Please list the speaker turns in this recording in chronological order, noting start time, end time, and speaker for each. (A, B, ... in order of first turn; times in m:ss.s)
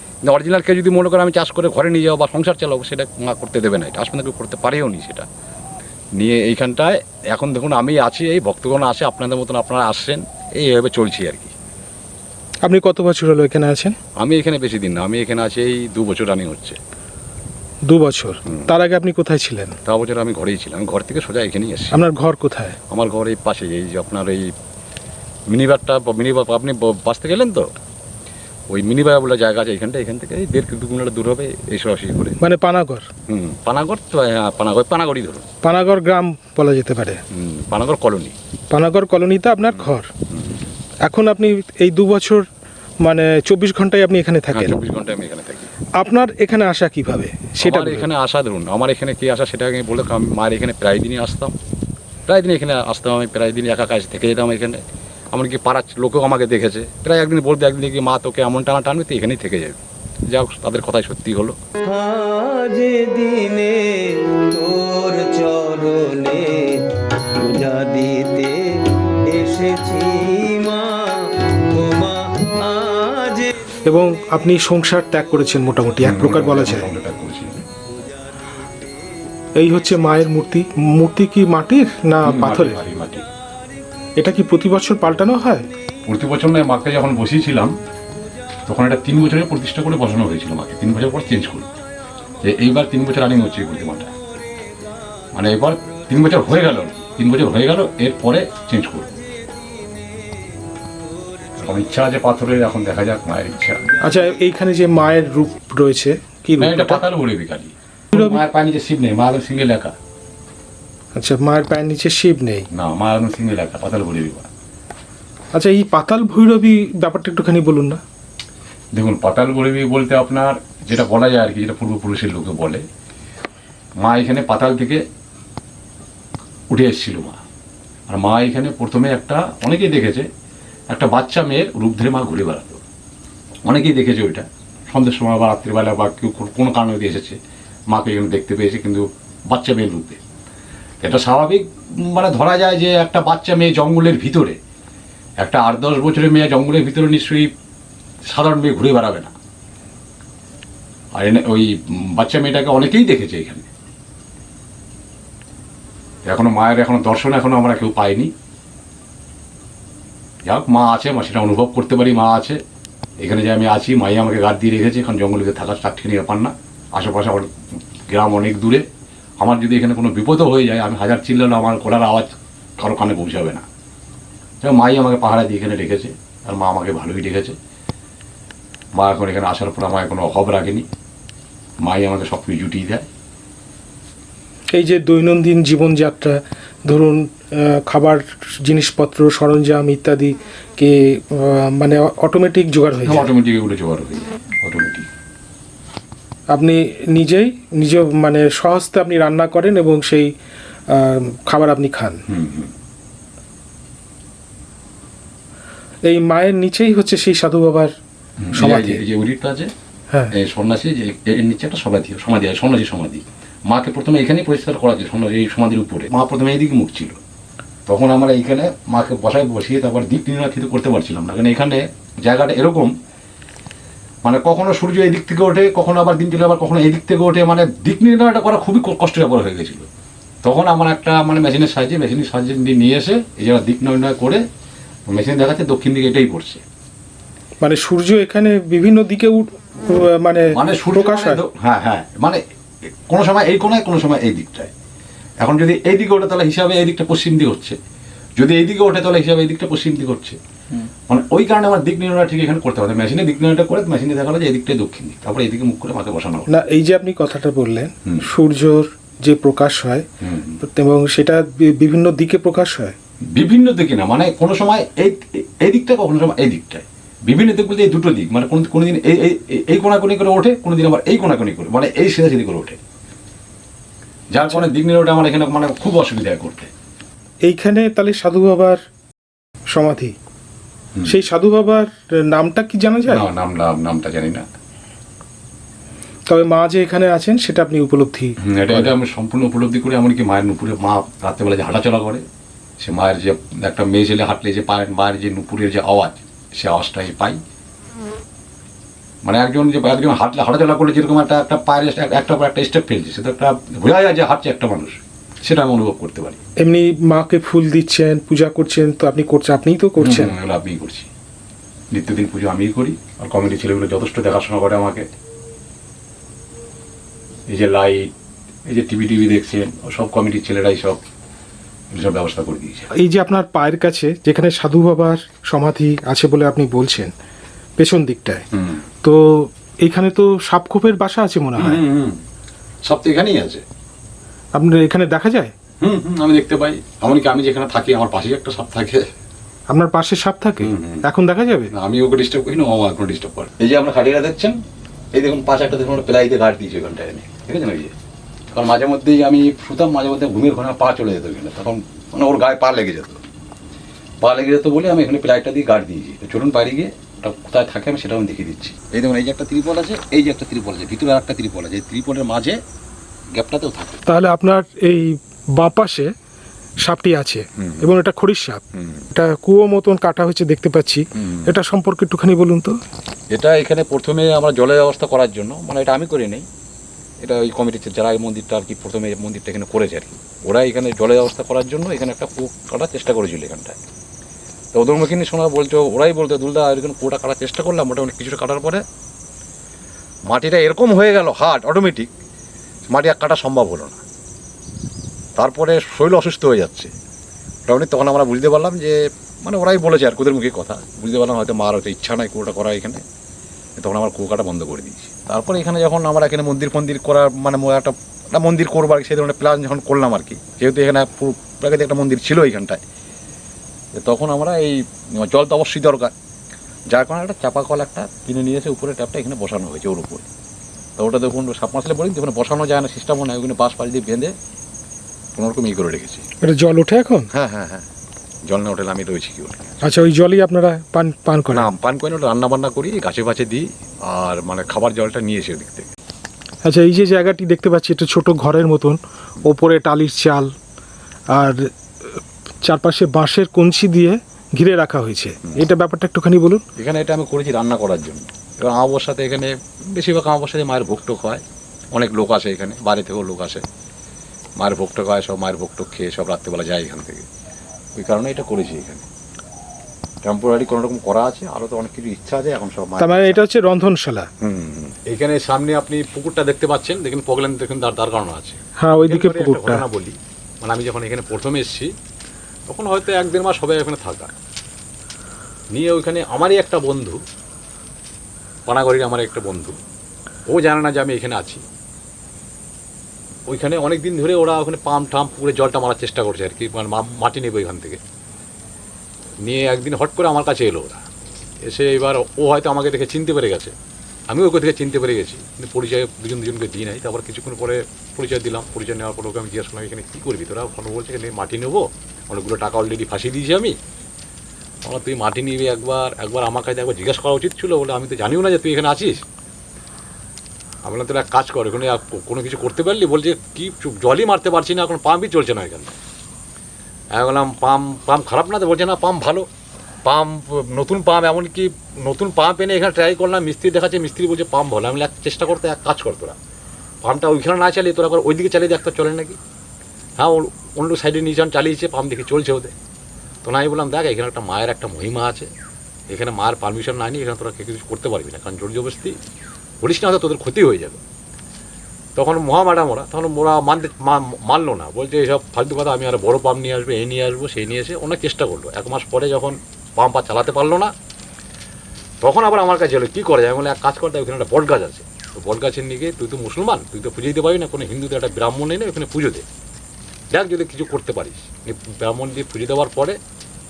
0:00.2-0:05.3 A
0:06.2-0:11.5 A
0:12.6-0:14.0 B
0:14.2-0:16.8 A
0:17.9-0:19.8 B
0:19.8-0:22.0 A
0:21.9-0:22.8 B
0:22.9-0:24.5 A
0:25.5-0:27.7 A
0:28.7-0:32.4 A
0:32.4-0:33.1 B
0:33.3-0:35.5 A
0:35.6-0:37.2 B
0:37.3-0:38.4 A
0:38.7-0:40.1 B
0:39.7-0:40.7 A
0:41.0-0:42.5 B
0:43.0-0:44.8 B
0:44.5-0:45.7 A
0:46.0-0:48.1 B
0:47.6-0:51.6 A
0:52.3-1:01.6 A
1:01.8-1:06.8 C
1:07.4-1:13.5 C
1:13.9-1:16.9 B
1:16.0-1:17.6 A
1:19.6-1:22.8 B
1:22.2-1:23.3 A
1:24.2-1:25.7 B
1:26.1-1:27.7 A
1:28.7-1:31.7 A
1:32.4-1:34.1 A
1:35.3-1:39.1 A
1:41.6-1:43.9 A
1:44.0-1:47.1 B
1:46.6-1:50.0 A
1:48.1-1:48.4 B
1:51.2-1:52.7 B
1:52.7-1:54.5 A
1:55.6-1:58.0 B
1:58.9-2:02.8 A
2:04.0-2:05.0 A
2:06.7-2:07.4 A
2:08.1-2:10.3 A
2:10.9-2:12.8 A
2:13.6-2:17.4 A
2:17.9-2:20.2 A
2:21.0-2:24.6 A
2:25.4-2:27.5 A
2:28.3-2:29.3 A
2:31.2-2:33.7 A
2:36.3-2:38.3 A
2:40.5-2:42.6 A
2:43.2-2:47.5 A
2:48.1-2:48.8 A
2:49.4-2:53.6 A
2:54.6-2:57.6 A
2:58.9-3:00.9 A
3:01.8-3:03.1 A
3:04.7-3:13.3 B
3:13.0-3:15.1 A
3:16.5-3:20.3 B
3:20.9-3:22.2 B
3:22.3-3:22.7 A
3:26.1-3:27.9 B
3:28.4-3:29.7 A
3:28.6-3:29.0 B
3:30.3-3:37.2 A
3:37.9-3:42.9 A
3:44.2-3:49.9 A
3:50.4-3:54.4 A
3:55.1-3:56.6 A
3:57.6-4:01.4 B
4:00.5-4:02.4 A
4:03.1-4:04.7 A
4:05.4-4:07.8 A
4:08.4-4:10.4 A
4:11.1-4:16.5 A
4:16.5-4:20.1 B
4:20.2-4:20.6 A
4:20.6-4:23.0 B
4:23.2-4:32.8 A
4:34.3-4:36.7 A
4:37.4-4:38.8 B
4:39.7-4:40.2 B
4:41.1-4:43.2 B
4:43.1-4:44.4 A
4:46.3-4:48.9 B
4:48.4-4:52.2 A
4:52.8-4:57.4 A
4:59.2-5:06.4 A
5:06.6-5:10.4 B
5:10.0-5:11.1 A
5:11.9-5:15.1 A
5:17.5-5:18.1 A
5:18.7-5:21.0 A
5:21.9-5:22.9 A
5:23.0-5:27.1 B
5:27.8-5:28.5 B
5:28.5-5:28.8 A
5:29.0-5:31.8 B
5:31.6-5:32.2 A
5:32.8-5:33.6 A
5:34.6-5:35.5 B
5:35.8-5:39.1 A
5:39.7-5:41.7 B
5:40.6-5:41.0 A
5:41.7-5:44.6 A
5:45.1-5:48.0 A
5:48.5-5:53.2 A
5:54.2-6:02.6 A
6:03.3-6:04.0 A
6:04.1-6:06.1 B
6:06.8-6:12.8 B
6:07.6-6:07.9 A
6:08.7-6:09.1 A
6:11.2-6:11.5 A
6:13.3-6:16.5 A
6:17.2-6:23.8 A
6:24.7-6:28.8 A
6:30.3-6:32.1 A
6:32.9-6:34.0 A
6:35.4-6:36.9 A
6:37.7-6:43.0 A
6:43.8-6:52.8 A
6:54.0-6:56.1 A
6:56.9-7:00.3 A
7:01.0-7:04.4 A
7:05.4-7:06.2 A
7:06.4-7:07.3 B
7:07.3-7:07.9 A
7:08.5-7:09.8 A
7:09.8-7:11.7 B
7:11.5-7:15.9 A
7:16.7-7:20.5 B
7:21.3-7:21.7 B
7:22.6-7:26.6 B
7:26.8-7:33.6 A
7:34.6-7:37.3 A
7:38.0-7:39.0 A
7:40.2-7:43.4 A
7:43.0-7:44.3 B
7:44.4-7:51.9 A
7:48.8-7:49.8 B
7:52.7-7:54.3 A
7:55.7-7:57.2 A
7:58.7-7:59.8 A
8:00.5-8:01.6 A
8:03.5-8:08.0 A
8:09.4-8:11.0 A
8:11.6-8:13.7 A
8:14.3-8:23.8 A
8:24.8-8:29.2 A
8:30.8-8:36.0 A
8:37.1-8:39.5 A
8:40.0-8:46.4 A
8:47.0-8:49.4 A
8:50.2-8:52.7 A
8:53.4-8:55.5 A
8:56.1-8:59.2 A
8:59.8-9:01.0 A
9:02.2-9:10.9 A
9:12.2-9:19.4 A
9:20.3-9:23.2 A